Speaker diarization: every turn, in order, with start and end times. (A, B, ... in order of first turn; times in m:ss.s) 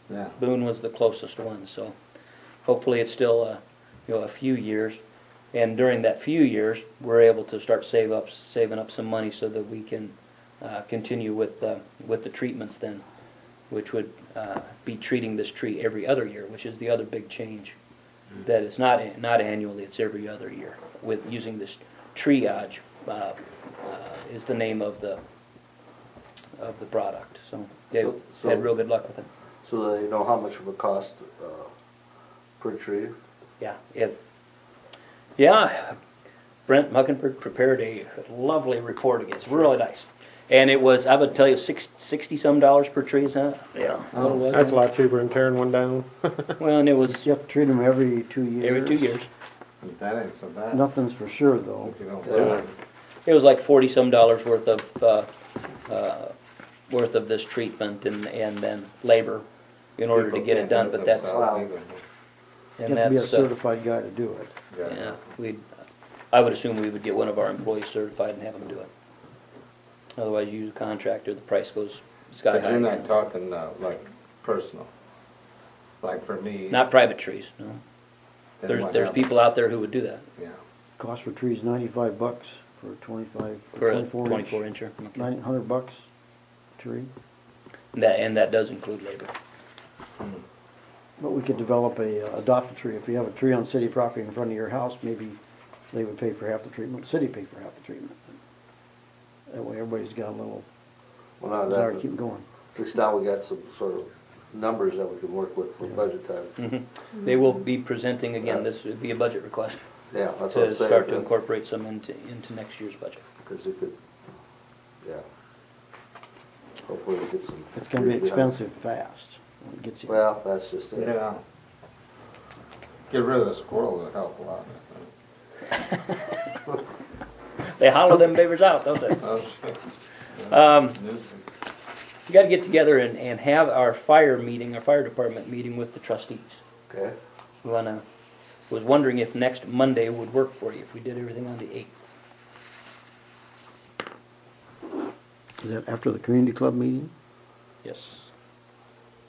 0:00.1-0:00.4 A
0:00.4-0:01.9 B
0:02.6-0:05.0 B
0:05.5-0:13.0 B
0:13.7-0:17.8 B
0:18.4-0:25.2 B
0:26.6-0:29.3 B
0:28.0-0:28.6 C
0:29.6-0:31.7 C
0:32.6-0:33.2 C
0:33.6-0:34.2 B
0:35.4-0:36.0 B
0:36.7-0:44.8 B
0:43.8-0:44.1 D
0:44.2-0:46.6 E
0:46.6-0:47.3 B
0:47.1-0:49.1 D
0:48.6-0:49.3 B
0:49.8-0:50.8 A
0:50.7-0:52.0 D
0:51.8-0:52.7 A
0:52.2-0:52.6 C
0:53.2-0:55.3 B
0:55.9-0:56.3 B
0:56.9-0:59.4 B
1:00.0-1:01.3 B
1:00.1-1:02.0 A
1:01.2-1:01.7 C
1:02.8-1:03.5 B
1:02.8-1:04.6 D
1:04.7-1:05.2 A
1:04.9-1:05.6 B
1:06.3-1:08.9 B
1:10.2-1:13.1 B
1:12.5-1:14.9 A
1:16.0-1:16.8 A
1:16.7-1:17.8 B
1:18.6-1:19.3 A
1:18.7-1:20.3 B
1:21.0-1:24.6 D
1:23.8-1:25.3 B
1:25.1-1:26.1 D
1:26.8-1:27.1 D
1:27.9-1:29.3 B
1:31.2-1:35.4 D
1:35.9-1:38.3 D
1:39.5-1:40.6 D
1:41.4-1:42.0 C
1:41.7-1:42.5 D
1:42.7-1:46.5 C
1:46.6-1:49.8 B
1:48.4-1:48.7 C
1:50.1-1:51.3 C
1:50.5-1:53.2 B
1:53.4-1:54.0 C
1:56.8-1:58.6 C
1:57.7-2:00.3 D
2:00.1-2:01.1 C
2:01.0-2:01.4 A
2:03.1-2:05.1 A
2:07.8-2:09.2 B
2:09.2-2:11.4 A
2:10.5-2:11.0 B
2:12.3-2:16.6 B
2:16.9-2:17.2 C
2:17.6-2:18.0 B
2:18.7-2:21.9 B
2:25.6-2:27.1 D
2:27.8-2:28.3 B